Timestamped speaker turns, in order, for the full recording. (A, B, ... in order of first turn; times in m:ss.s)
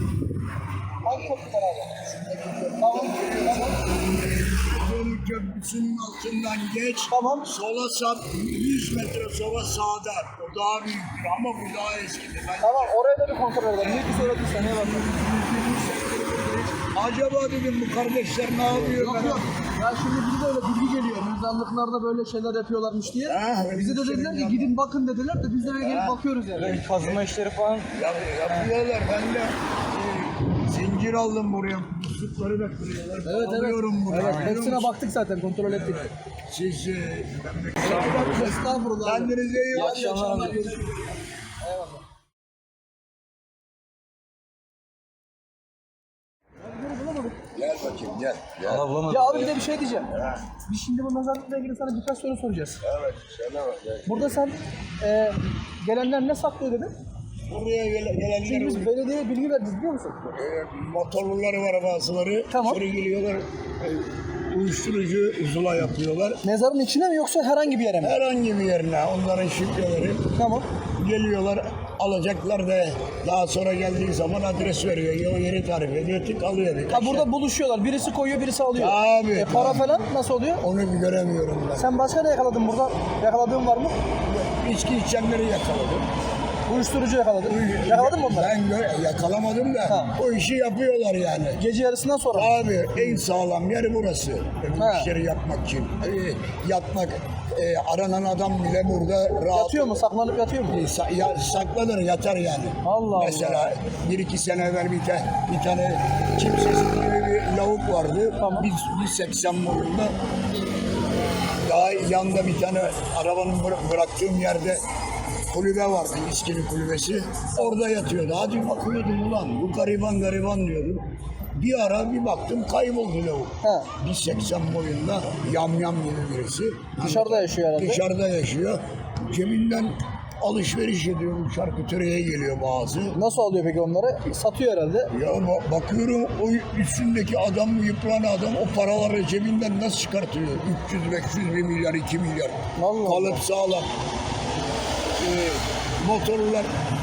0:01.0-0:02.0 A
0:02.0-0:13.0 B
0:02.8-0:03.8 A
0:07.1-0:07.5 A
0:12.6-0:15.1 A
0:13.8-0:19.5 B
0:18.7-0:26.8 A
0:23.3-0:24.7 B
0:25.7-0:26.2 B
0:26.6-0:28.7 C
0:26.9-0:27.2 B
0:27.9-0:34.9 B
0:33.2-0:36.1 A
0:34.1-0:34.6 C
0:35.6-0:41.2 B
0:37.8-0:38.6 C
0:37.8-0:40.8 A
0:39.7-0:40.6 C
0:41.6-0:42.0 A
0:46.6-0:47.4 A
0:47.5-0:49.0 B
0:48.6-0:49.7 C
0:49.1-0:52.8 A
0:52.8-0:54.2 B
0:54.0-0:56.9 A
0:57.5-0:58.9 B
0:58.4-1:00.3 A
1:00.3-1:06.4 B
1:02.5-1:02.8 A
1:06.4-1:08.2 A
1:08.0-1:10.4 B
1:10.4-1:10.7 A
1:11.0-1:17.3 B
1:16.9-1:20.6 A
1:18.7-1:20.1 B
1:20.6-1:21.9 B
1:21.8-1:24.0 A
1:24.2-1:26.1 B
1:26.7-1:28.5 A
1:27.4-1:31.6 B
1:29.9-1:30.2 A
1:31.6-1:32.5 A
1:32.3-1:40.0 B
1:34.8-1:35.1 A
1:39.5-1:40.8 A
1:40.7-1:50.2 B
1:42.8-1:43.7 A
1:48.4-1:48.7 A
1:51.6-1:54.8 B
1:55.5-2:13.2 B
2:03.6-2:03.9 A
2:07.0-2:08.0 A
2:13.1-2:15.1 A
2:15.1-2:23.9 B
2:22.8-2:23.4 A
2:25.2-2:26.7 B